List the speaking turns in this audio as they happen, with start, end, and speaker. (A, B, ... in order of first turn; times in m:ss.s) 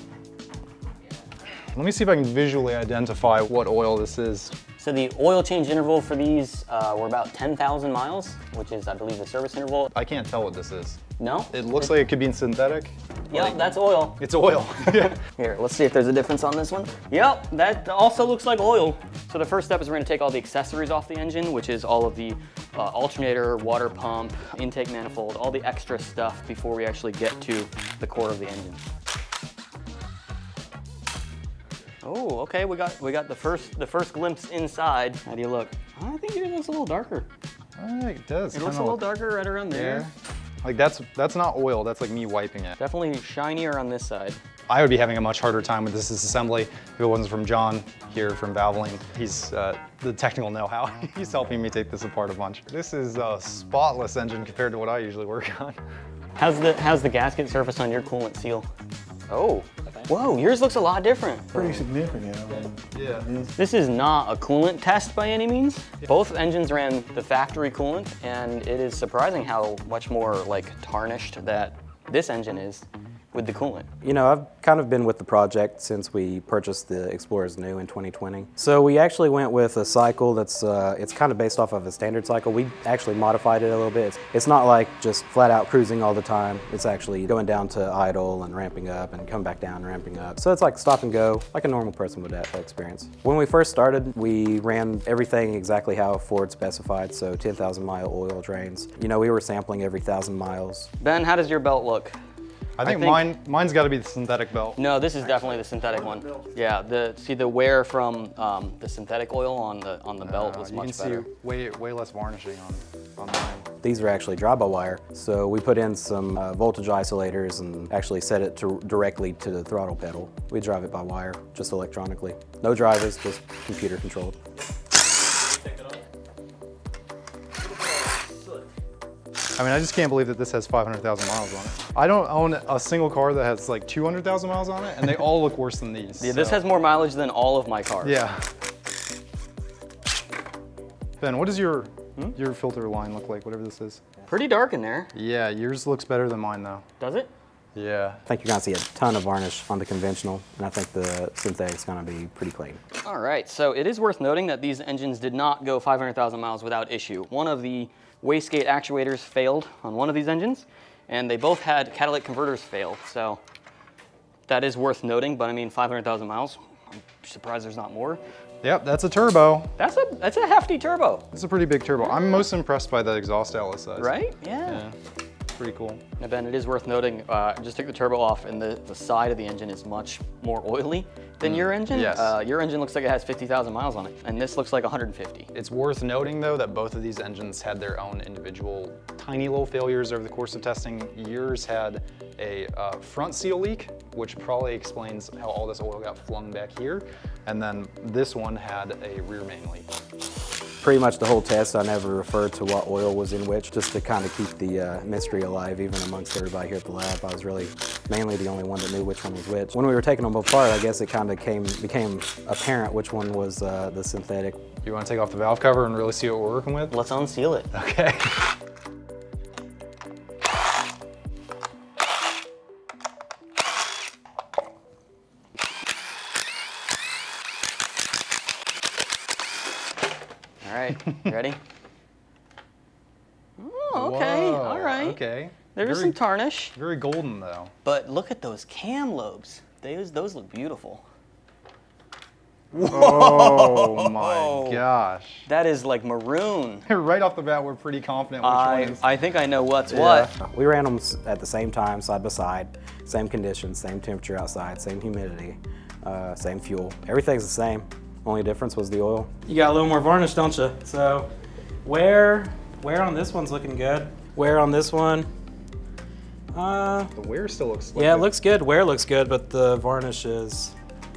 0:01.7-0:04.5 A
0:04.8-0:09.9 B
0:09.9-0:15.2 A
0:11.2-0:12.0 B
0:13.3-0:14.2 B
0:14.8-0:28.8 B
0:32.0-0:37.3 B
0:37.8-0:39.1 A
0:38.5-0:40.1 B
0:39.7-0:42.8 A
0:42.8-0:44.4 B
0:44.7-0:55.8 A
0:56.4-0:58.7 B
0:59.3-1:01.8 B
1:01.5-1:03.5 C
1:02.9-1:03.3 A
1:03.6-1:13.9 B
1:14.0-1:40.9 D
1:41.0-1:42.1 B
1:42.8-1:45.5 A
1:42.8-1:43.3 B
1:44.8-1:51.3 B
1:45.6-1:46.5 C
1:50.2-1:53.7 A
1:53.8-2:04.4 D
2:09.6-2:16.6 A
2:16.2-2:18.2 B
2:18.0-2:18.4 A
2:21.2-2:24.0 A
2:24.3-2:25.1 B
2:25.1-2:26.8 A
2:27.0-2:27.3 B
2:27.7-2:28.2 A
2:28.2-2:32.8 D
2:33.0-2:43.4 B
2:44.5-2:48.2 B
2:48.6-2:49.7 A
2:49.8-2:51.2 B
2:51.3-2:54.9 A
2:54.0-2:54.8 B
2:55.5-2:56.0 A
2:56.2-3:05.5 B
3:01.4-3:02.4 A
3:05.5-3:19.9 A
3:20.8-3:34.6 D
3:34.8-3:37.0 A
3:36.9-3:37.7 B
3:37.7-3:38.4 A
3:50.6-3:51.6 B
3:53.6-3:55.2 B
3:53.9-3:56.2 A
3:55.7-3:56.7 B
3:56.7-3:57.7 A
3:57.8-4:01.0 B
4:02.7-4:04.8 B
4:02.7-4:05.5 A
4:05.4-4:06.8 B
4:06.8-4:09.1 A
4:08.4-4:10.3 B
4:09.9-4:21.3 D
4:21.8-4:25.3 D
4:26.5-4:27.1 D
4:27.1-4:28.3 A
4:27.9-4:30.7 D